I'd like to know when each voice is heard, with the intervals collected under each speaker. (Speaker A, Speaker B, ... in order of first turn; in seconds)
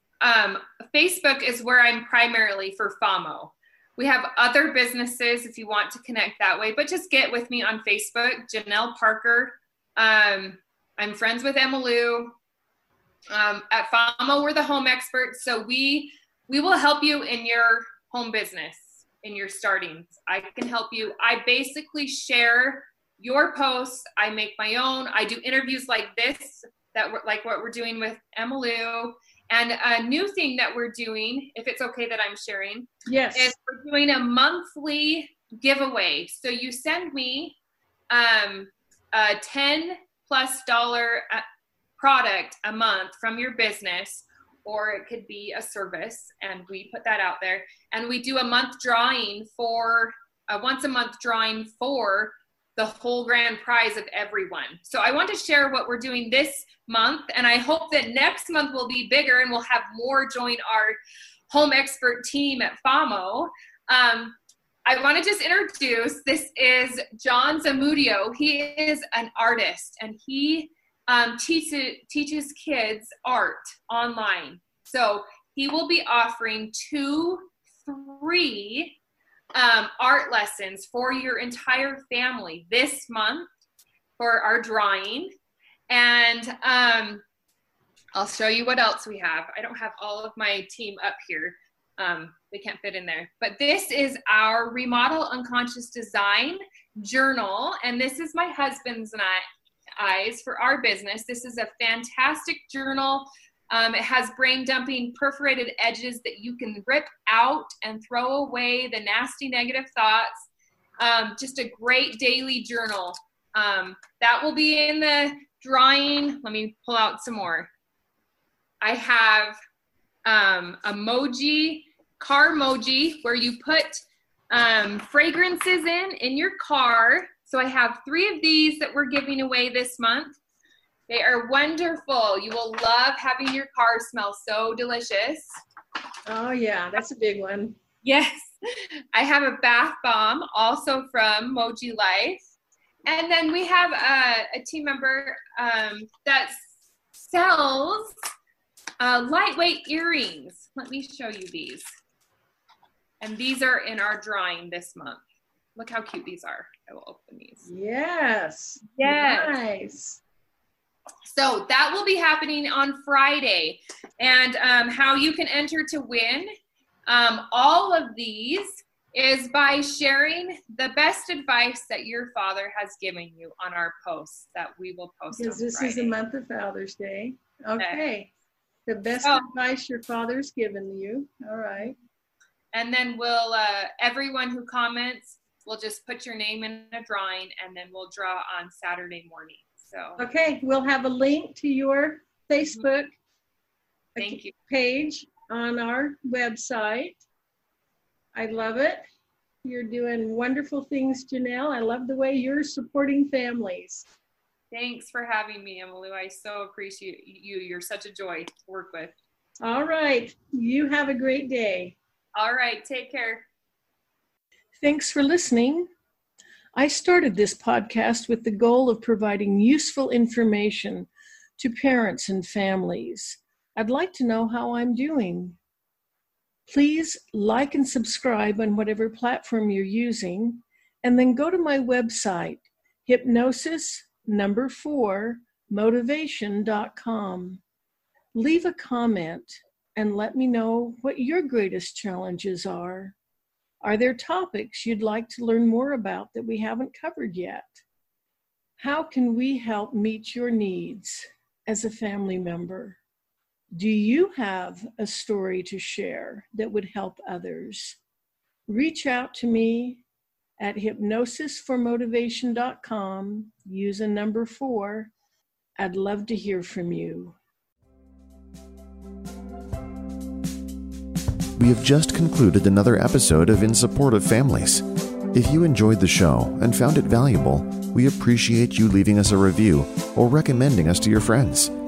Speaker A: 0.2-12.3, 13.3-37.6, 38.1-41.4, 42.0-61.0, 61.5-79.0, 79.5-83.5, 84.2-85.3, 85.9-87.2, 88.2-99.4, 100.0-110.4, 111.0-117.7, 118.8-119.6, 120.2-130.3, 131.1-135.6, 138.0-142.4, 143.1-148.1, 149.0-151.8, 153.2-155.2, 155.8-157.7, 159.0-159.6, 161.3-166.5, 167.1-176.2, 182.7-190.2, 194.2-194.5, 204.7-209.2, 212.3-213.5
Speaker B: 33.1-33.5, 136.3-137.8, 157.7-160.2, 175.3-178.3, 178.9-182.0, 190.2-193.2, 194.2-197.2, 198.3-199.0, 199.6-204.1, 209.6-212.0, 214.8-215.9, 216.8-225.6, 226.7-237.6, 238.3-243.2, 243.8-247.8, 248.8-253.0, 253.7-258.0, 258.7-260.0, 260.6-265.1, 265.8-267.4
Speaker C: 271.6-281.7